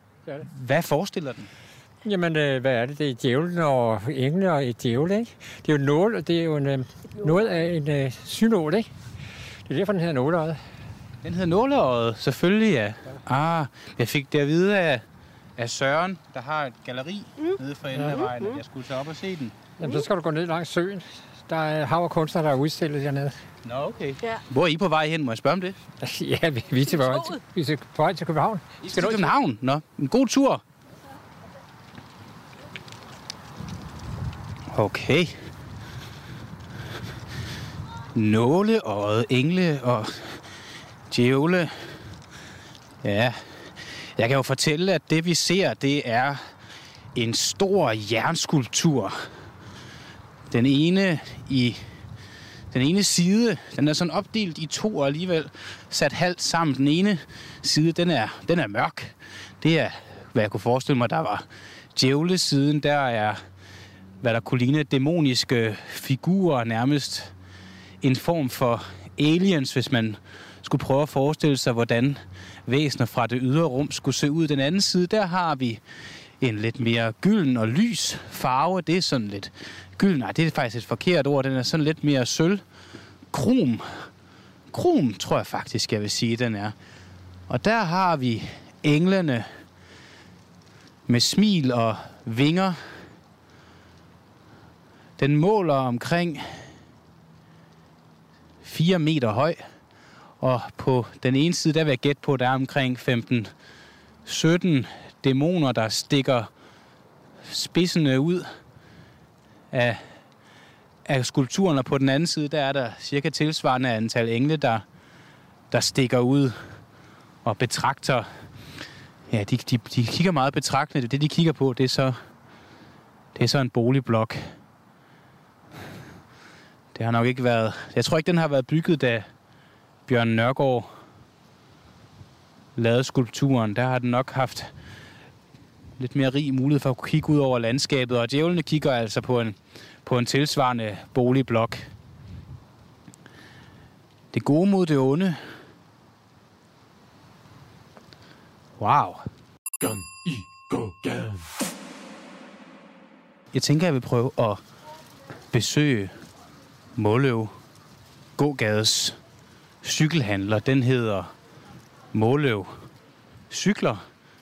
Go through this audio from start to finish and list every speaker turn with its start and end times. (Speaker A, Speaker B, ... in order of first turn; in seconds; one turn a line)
Speaker A: 0.4-1.5
Speaker B: 2.0-8.9
Speaker B: 9.7-10.6
Speaker A: 11.2-15.0
Speaker A: 15.6-19.6
Speaker B: 19.8-23.4
Speaker A: 23.6-25.8
Speaker B: 26.0-28.8
Speaker A: 28.8-30.6
Speaker A: 34.7-35.3
Speaker A: 38.1-40.4
Speaker A: 41.1-41.7
Speaker A: 43.0-46.4
Speaker A: 47.1-49.2
Speaker A: 50.5-51.8
Speaker A: 52.7-63.4
Speaker A: 64.2-67.3
Speaker A: 68.0-75.8
Speaker A: 76.4-82.6
Speaker A: 83.3-84.1
Speaker A: 84.7-86.7
Speaker A: 87.5-89.5
Speaker A: 91.1-92.8
Speaker A: 95.2-96.7
Speaker A: 98.6-99.6
Speaker A: 100.4-103.5
Speaker A: 104.2-106.5
Speaker A: 107.4-108.5
Speaker A: 109.7-110.0
Speaker A: 111.0-114.8
Speaker A: 115.7-116.6
Speaker A: 117.4-118.3
Speaker A: 119.3-122.2
Speaker A: 123.3-124.4
Speaker A: 126.9-129.3
Speaker A: 130.1-130.9
Speaker A: 132.8-134.7
Speaker A: 136.0-141.8
Speaker A: 144.3-145.4
Speaker A: 148.8-149.2
Speaker A: 153.5-154.6
Speaker A: 155.5-156.1
Speaker A: 156.9-157.5
Speaker A: 158.4-159.2
Speaker A: 159.8-161.3
Speaker A: 162.1-162.7
Speaker A: 163.5-164.0